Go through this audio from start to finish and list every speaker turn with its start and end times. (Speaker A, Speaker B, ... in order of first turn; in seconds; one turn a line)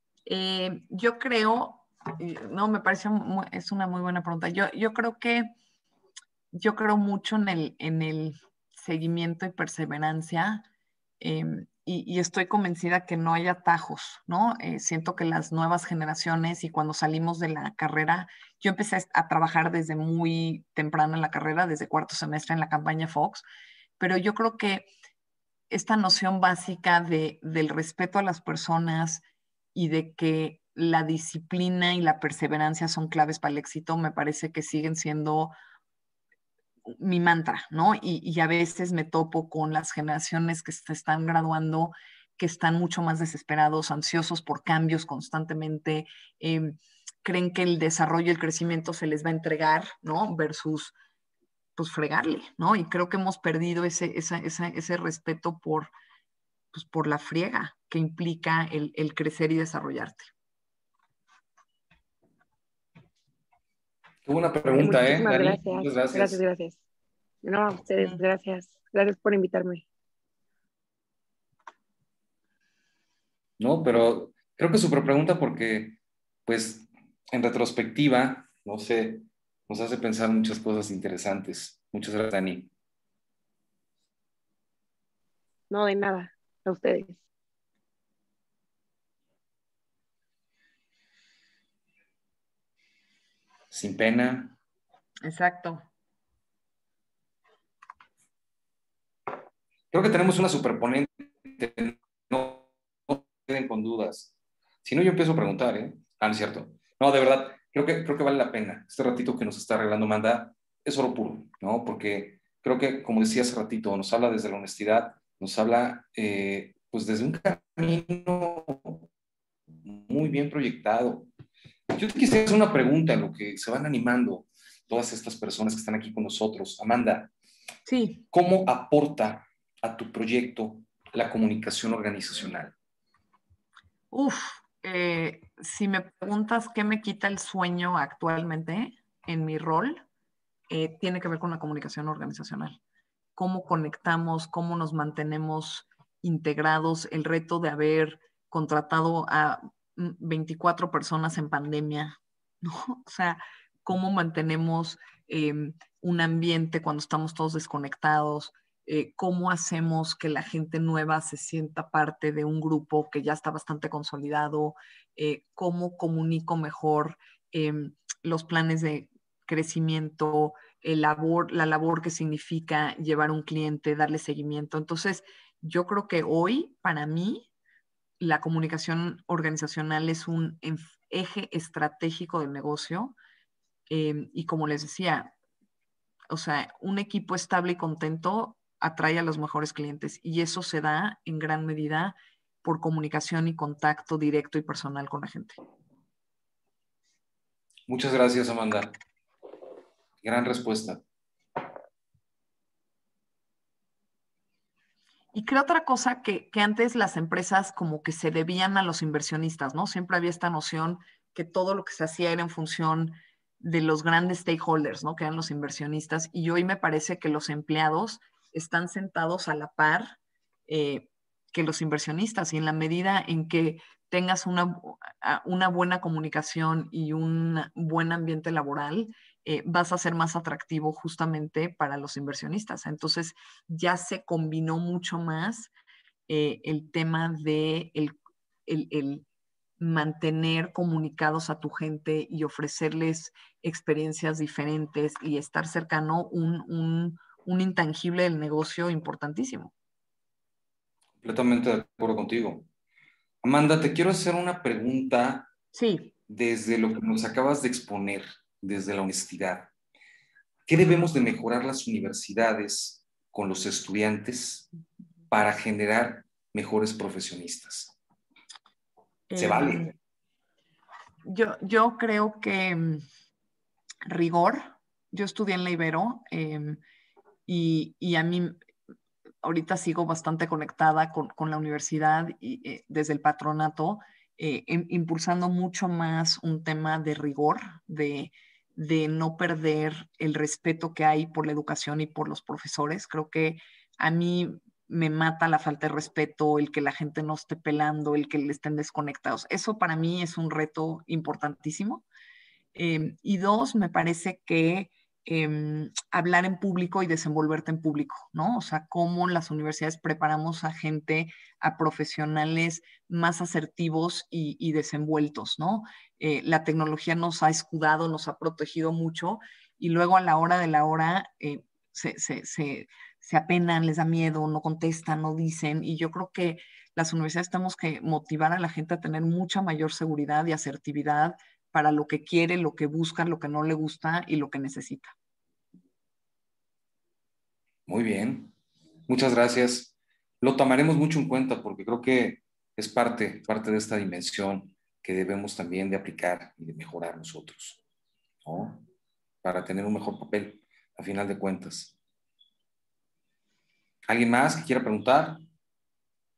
Speaker A: 0.2-5.5
Speaker A: 6.5-10.7
Speaker A: 11.2-23.4
Speaker A: 24.0-24.9
Speaker A: 25.7-35.5
Speaker A: 36.9-50.9
Speaker A: 51.8-55.9
Speaker A: 56.7-60.3
Speaker B: 64.2-66.4
Speaker C: 64.7-66.8
Speaker C: 67.4-69.8
Speaker B: 73.6-82.7
Speaker C: 85.7-87.2
Speaker B: 93.7-94.5
Speaker A: 95.2-95.8
Speaker B: 99.9-104.3
Speaker B: 104.8-119.1
Speaker B: 119.8-121.3
Speaker B: 121.9-127.3
Speaker A: 127.9-128.2
Speaker B: 128.3-132.7
Speaker A: 134.1-140.0
Speaker A: 140.7-142.8
Speaker A: 143.3-177.5
Speaker A: 178.2-183.2
Speaker A: 183.9-185.3
Speaker A: 186.3-195.6
Speaker B: 197.9-199.0
Speaker B: 200.2-201.0
Speaker A: 205.3-235.7
Speaker A: 236.3-239.2
Speaker A: 239.8-249.7
Speaker B: 251.2-252.7
Speaker B: 253.4-255.5
Speaker A: 255.7-256.1
Speaker B: 256.3-259.7
Speaker B: 260.7-264.7
Speaker B: 265.3-267.9
Speaker A: 269.3-269.9
Speaker B: 269.4-269.9
Speaker A: 271.2-273.0
Speaker A: 274.0-276.8
Speaker A: 277.5-278.6
Speaker A: 279.4-302.0
Speaker A: 302.7-335.1
Speaker B: 337.9-338.5
Speaker B: 339.1-347.8
Speaker B: 348.4-348.8
Speaker B: 349.4-351.9
Speaker B: 354.1-355.4